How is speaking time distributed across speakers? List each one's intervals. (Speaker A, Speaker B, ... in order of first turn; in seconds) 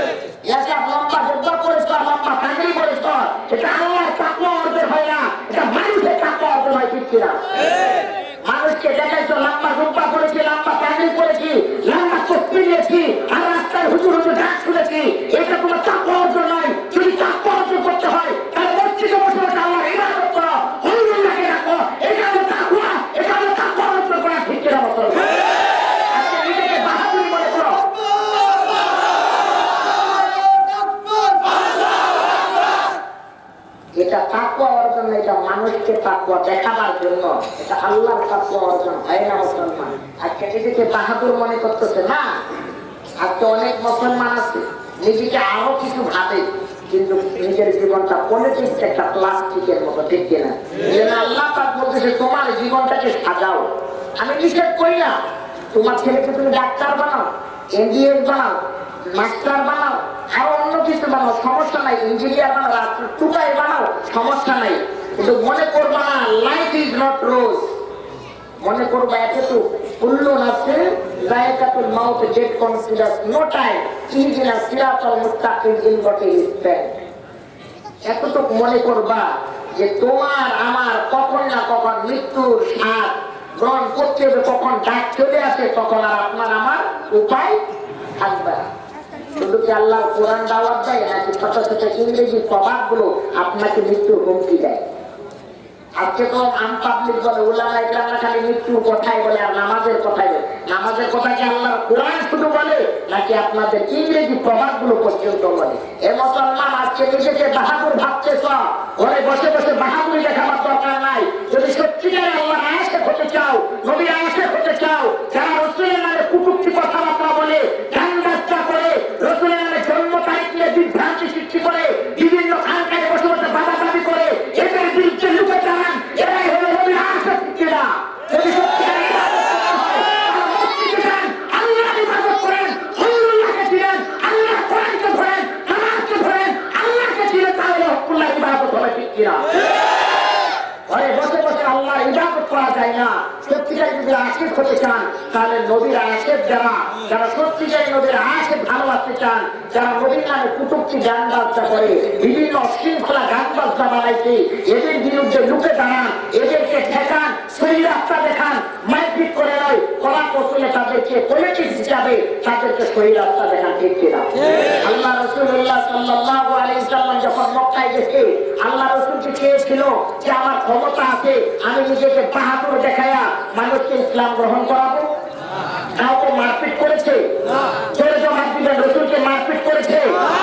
Speaker A: 0.4-7.4, 8.4-25.4, 26.1-27.8, 34.0-42.3, 43.2-53.7, 54.2-55.2, 55.7-57.2, 57.8-58.6, 59.1-67.7, 68.6-76.9, 78.1-87.6, 88.2-88.6, 89.4-94.8, 96.0-139.5, 140.9-164.3, 164.8-175.1, 176.0-177.3, 177.9-180.2